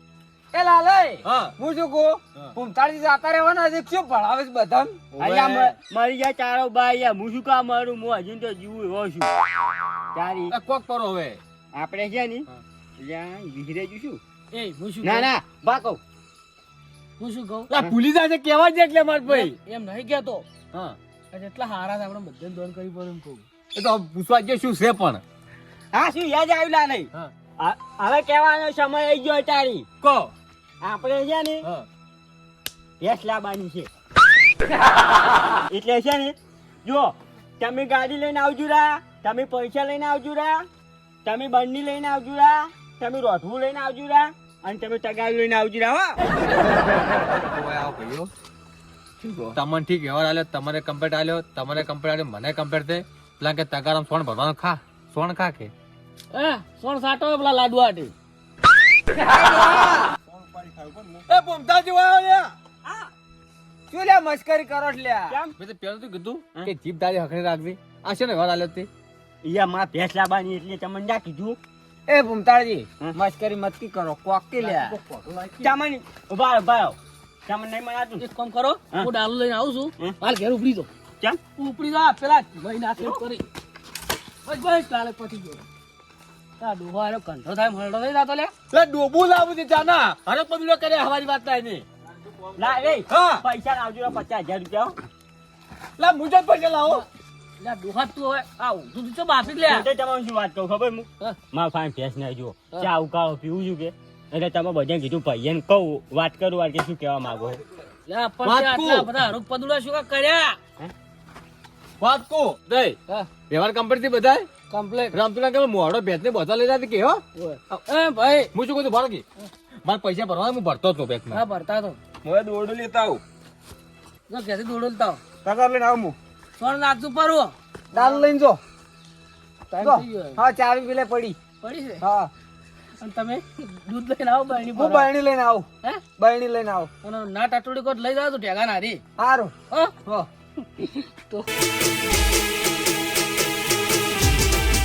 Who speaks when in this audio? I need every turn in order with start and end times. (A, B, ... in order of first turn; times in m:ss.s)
0:00.5-0:05.7 A
0:01.2-0:01.5 B
0:05.1-0:09.3 C
0:10.1-0:10.5 C
0:10.5-0:11.4 B
0:11.7-0:12.5 C
0:13.0-0:14.2 C
0:14.5-0:15.3 D
0:15.0-0:16.0 C
0:17.2-0:17.7 D
0:17.7-0:19.5 B
0:19.2-0:20.4 D
0:21.3-0:23.4 D
0:23.7-0:25.2 B
0:25.9-0:29.9 C
0:30.0-0:30.3 B
0:30.8-0:31.6 C
0:33.0-0:33.9 C
0:35.7-0:40.7 C
0:41.2-0:46.2 C
0:47.1-0:48.3 B
0:49.2-0:49.6 D
0:49.5-0:55.7 B
0:56.3-0:58.1 D
0:59.2-1:00.1 A
1:00.2-1:01.2 E
1:01.3-1:02.5 B
1:02.8-1:03.1 C
1:03.9-1:05.3 A
1:05.3-1:05.5 C
1:05.6-1:08.9 B
1:09.4-1:11.6 C
1:12.1-1:14.9 A
1:14.6-1:15.7 D
1:15.6-1:18.2 C
1:18.2-1:20.9 D
1:21.6-1:23.5 D
1:24.4-1:25.6 D
1:26.6-1:28.5 D
1:28.7-1:31.8 B
1:32.1-1:33.0 E
1:32.6-1:35.0 C
1:33.1-1:33.4 B
1:36.0-1:37.0 B
1:37.6-1:39.8 D
1:39.5-1:47.6 C
1:48.1-1:50.6 D
1:48.4-1:49.2 B
1:52.0-1:53.0 B
1:53.5-1:54.5 B
1:54.7-1:55.2 D
1:55.1-1:57.2 B
1:57.3-1:58.5 D
1:58.5-1:59.2 B
1:59.8-2:01.4 B
2:01.3-2:02.0 D
2:02.2-2:03.2 E
2:04.3-2:05.2 D
2:05.4-2:06.2 E
2:06.6-2:08.2 D
2:07.9-2:08.6 A
2:09.7-2:10.4 D
2:09.8-2:11.4 A
2:11.6-2:12.0 D
2:12.0-2:12.3 A
2:13.0-2:15.1 D
2:14.7-2:15.7 A
2:16.2-2:16.9 A
2:17.0-2:19.0 D
2:19.2-2:19.5 A
2:19.7-2:20.0 D
2:20.8-2:21.5 D